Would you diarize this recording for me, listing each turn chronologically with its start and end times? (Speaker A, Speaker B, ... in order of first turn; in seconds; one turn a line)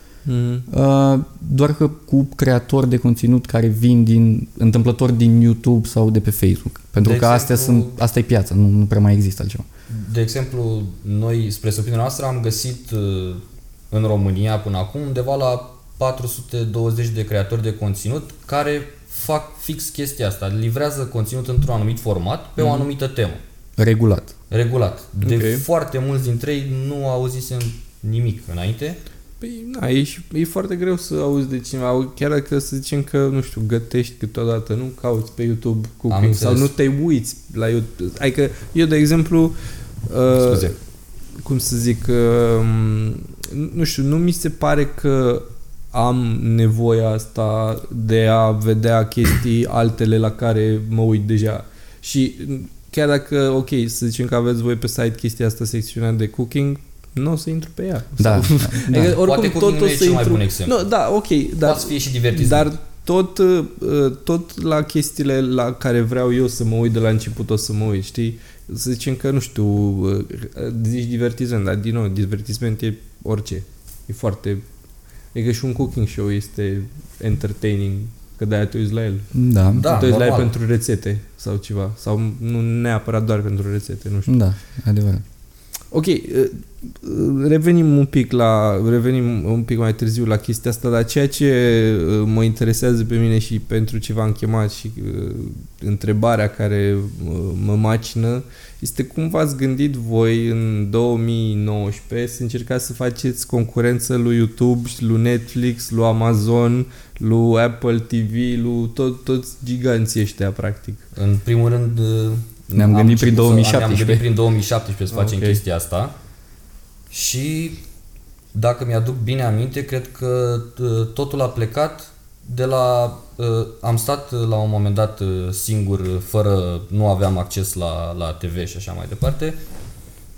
Speaker A: 0.2-0.7
Speaker B: 0.7-9.7
Speaker C: 7.0-8.0
Speaker C: 9.9-23.4
Speaker A: 22.6-22.9
Speaker B: 23.8-24.3
Speaker C: 24.5-29.0
Speaker A: 25.2-25.6
Speaker A: 29.4-39.5
Speaker C: 36.1-36.7
Speaker A: 40.1-40.7
Speaker C: 40.3-40.8
Speaker A: 41.4-74.6
Speaker B: 58.2-59.1
Speaker C: 58.9-60.8
Speaker C: 61.6-62.7
Speaker A: 75.3-79.3
Speaker B: 79.3-79.9
Speaker C: 79.8-80.5
Speaker A: 79.8-84.3
Speaker B: 84.3-85.2
Speaker A: 85.9-111.0
Speaker C: 111.1-116.1
Speaker B: 112.7-114.3
Speaker A: 115.1-115.6
Speaker C: 117.1-117.8
Speaker C: 118.5-129.6